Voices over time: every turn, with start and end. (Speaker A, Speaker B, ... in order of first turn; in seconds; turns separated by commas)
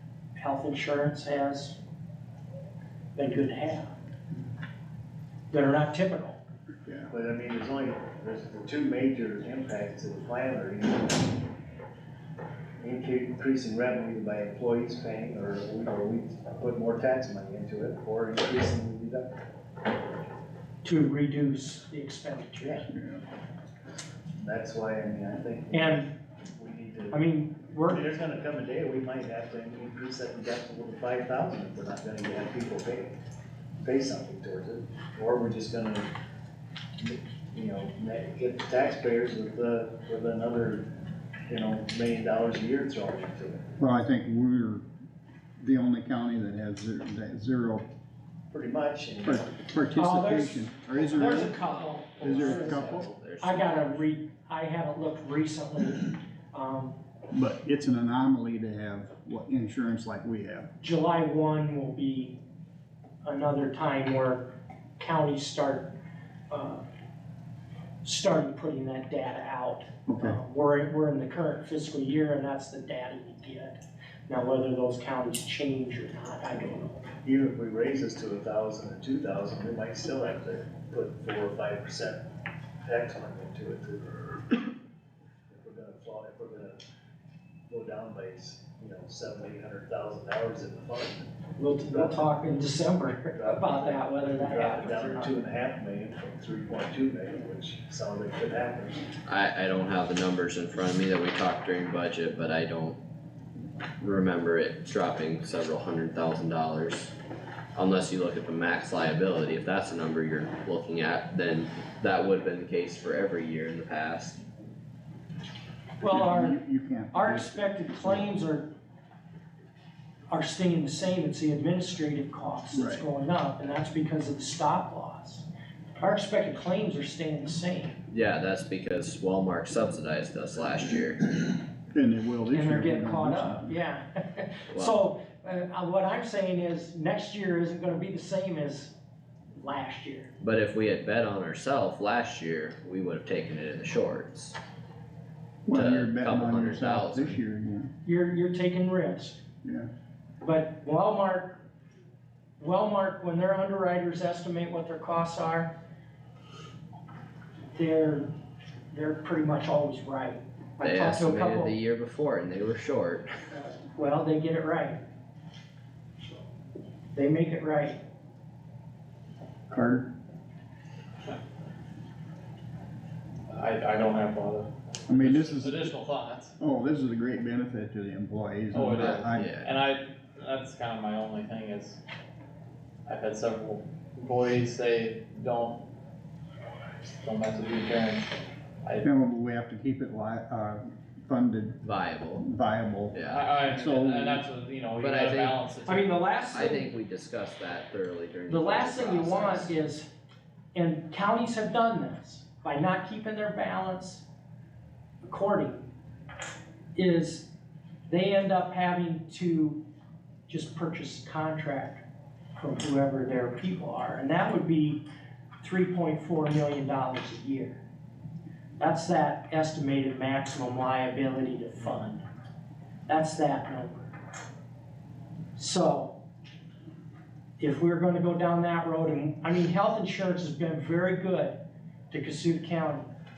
Speaker A: 0.3-1.8, Speaker A: 3.2-4.0, Speaker A: 5.5-6.4, Speaker B: 7.1-11.3, Speaker B: 12.8-19.4, Speaker A: 20.8-22.9, Speaker B: 22.6-22.9, Speaker C: 22.9-23.2, Speaker B: 24.4-27.2, Speaker A: 25.7-26.1, Speaker A: 27.1-28.0, Speaker B: 27.9-33.2, Speaker B: 33.8-36.1, Speaker B: 37.0-40.9, Speaker B: 41.5-43.7, Speaker C: 43.8-44.9, Speaker C: 45.6-47.9, Speaker B: 48.5-49.5, Speaker C: 49.3-51.5, Speaker A: 50.0-57.0, Speaker D: 51.1-54.0, Speaker C: 52.2-53.1, Speaker C: 57.3-60.7, Speaker A: 60.8-62.4, Speaker A: 63.2-65.9, Speaker A: 66.5-66.8, Speaker A: 68.0-77.1, Speaker C: 70.1-70.4, Speaker B: 77.2-82.2, Speaker B: 82.8-84.4, Speaker B: 85.5-86.8, Speaker B: 87.7-91.3, Speaker A: 91.6-95.4, Speaker B: 91.9-92.2, Speaker B: 93.3-99.0, Speaker D: 99.3-103.0, Speaker D: 104.0-107.1, Speaker D: 107.8-114.4, Speaker A: 116.0-116.6, Speaker C: 116.0-118.3, Speaker A: 117.1-118.7, Speaker A: 120.3-128.0, Speaker C: 122.7-123.1, Speaker D: 128.1-131.2, Speaker C: 131.9-133.8, Speaker A: 132.5-138.9, Speaker D: 134.7-135.0, Speaker A: 139.6-140.3, Speaker D: 140.4-144.6, Speaker C: 145.7-147.9, Speaker D: 145.7-147.4, Speaker A: 148.1-149.4, Speaker C: 149.6-149.9, Speaker A: 150.4-151.6, Speaker A: 152.6-155.7, Speaker A: 157.7-158.3, Speaker A: 158.9-161.8, Speaker D: 160.8-163.3, Speaker A: 163.5-165.0, Speaker A: 167.1-168.0, Speaker C: 169.7-170.1, Speaker E: 173.5-176.5, Speaker C: 175.1-175.8, Speaker C: 176.6-179.5, Speaker E: 178.7-182.0, Speaker D: 179.3-179.7, Speaker E: 183.1-185.8, Speaker E: 187.2-189.1, Speaker C: 189.0-191.8, Speaker D: 191.8-192.4, Speaker C: 192.4-193.2, Speaker D: 193.1-193.4, Speaker E: 193.3-196.7, Speaker C: 193.7-194.4, Speaker D: 195.0-195.6, Speaker A: 195.9-196.9, Speaker D: 196.5-199.8, Speaker A: 198.5-200.1, Speaker A: 200.7-204.2, Speaker A: 205.2-205.9, Speaker A: 206.9-207.5, Speaker A: 208.1-209.8, Speaker A: 210.5-212.0, Speaker A: 212.6-215.0, Speaker A: 215.6-217.8, Speaker A: 218.8-222.2, Speaker A: 223.1-224.1, Speaker A: 225.6-226.2, Speaker A: 227.6-233.1